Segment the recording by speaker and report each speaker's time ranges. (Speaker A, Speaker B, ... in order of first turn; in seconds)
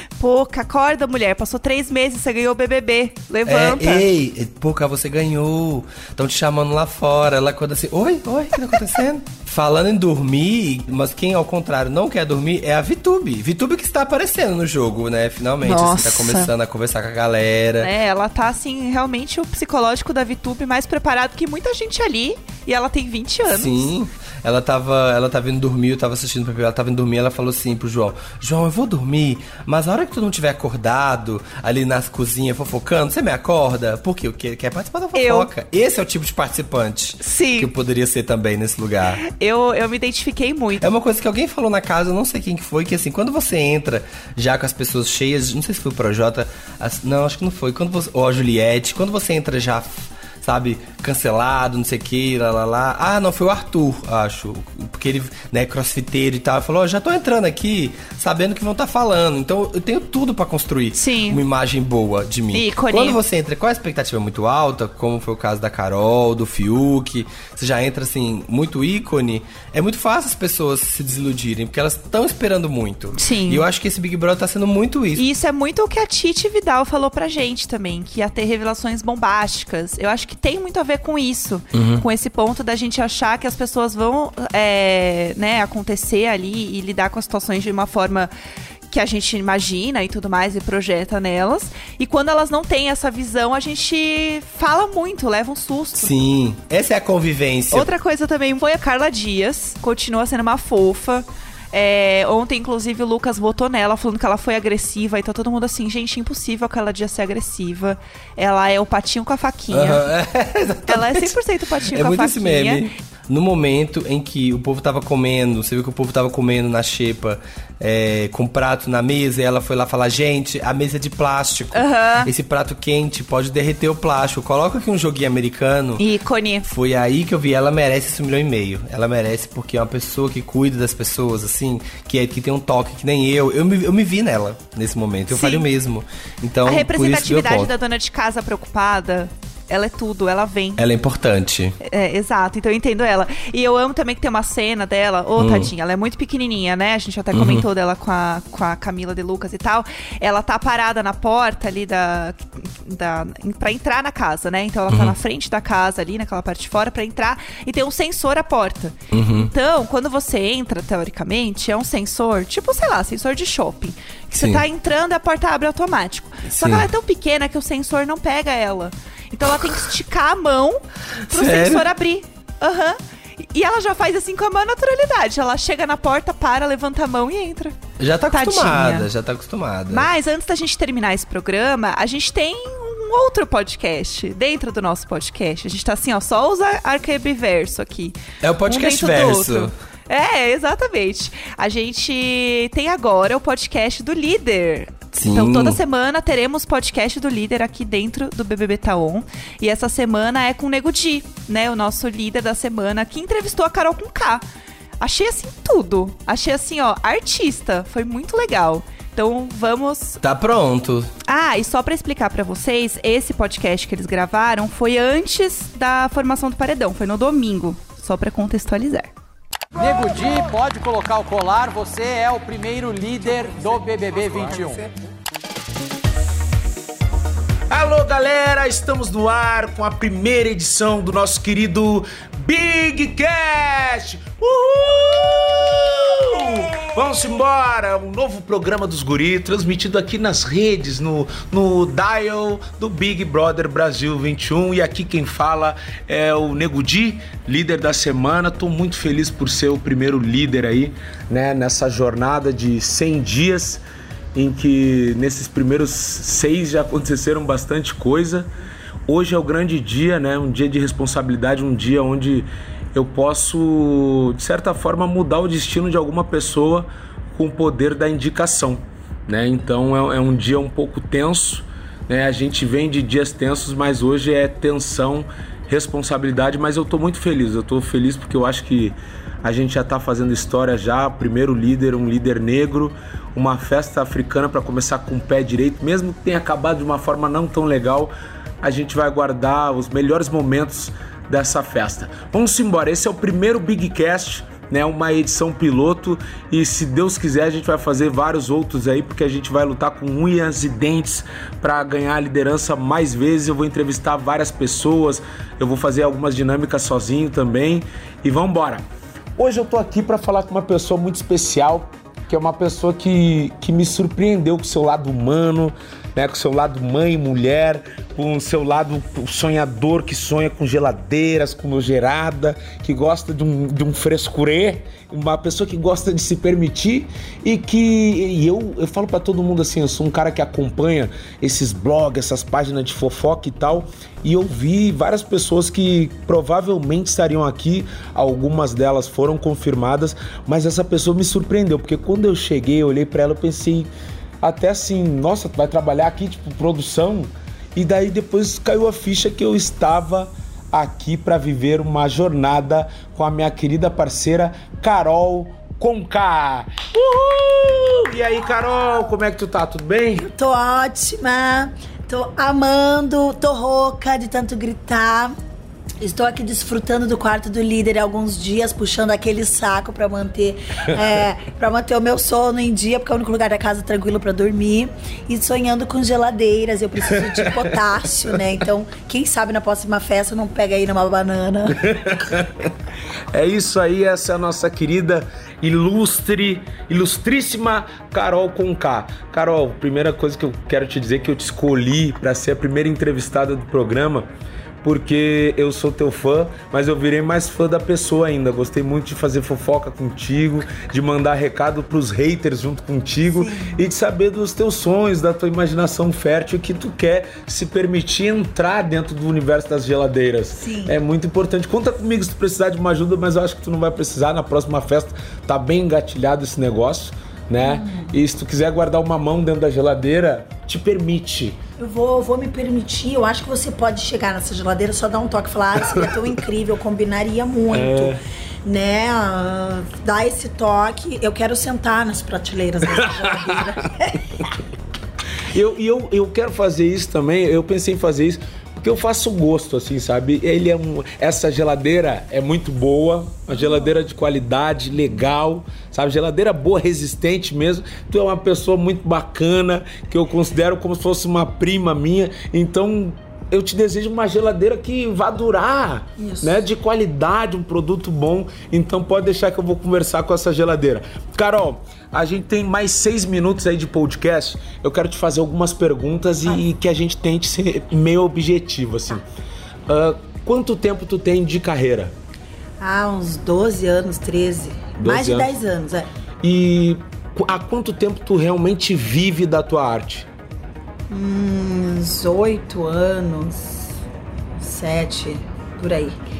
Speaker A: 0.2-4.0, 15.6-16.5, 17.8-23.8, 35.1-35.5, 37.2-37.7, 39.2-40.8, 60.9-61.4, 62.5-63.2, 73.2-73.6, 75.2-88.3, 88.9-96.1, 97.7-110.0, 110.9-112.8, 121.7-122.3, 126.0-126.7, 135.3-135.6, 136.6-140.8, 141.8-177.8, 178.3-179.1, 179.9-204.4, 205.0-210.2, 211.3-219.1
Speaker B: 3.5-17.9, 23.5-39.2, 40.8-75.2, 81.7-82.0, 96.0-97.9, 109.7-111.3, 111.9-126.0, 126.6-137.7, 140.8-141.8, 145.3-145.7, 147.3-147.6, 154.9-155.2, 159.1-159.5, 164.3-164.6, 166.5-166.8, 171.3-171.9, 178.0-180.1, 188.4-189.7, 195.2-195.8, 210.2-211.1
Speaker C: 219.8-224.9
Speaker D: 227.7-253.8, 254.3-258.5, 259.1-308.8, 309.4-343.9, 344.4-360.3, 381.9-382.7, 383.3-394.3, 394.8-421.6, 427.7-428.2, 435.5-469.2, 469.9-472.1, 475.0-475.5, 476.4-480.3
Speaker E: 360.2-365.3, 366.0-381.9, 403.3-403.8, 410.6-410.9, 417.6-418.1, 421.8-434.6, 456.2-456.6, 472.8-476.1, 481.1-483.9, 484.6-486.2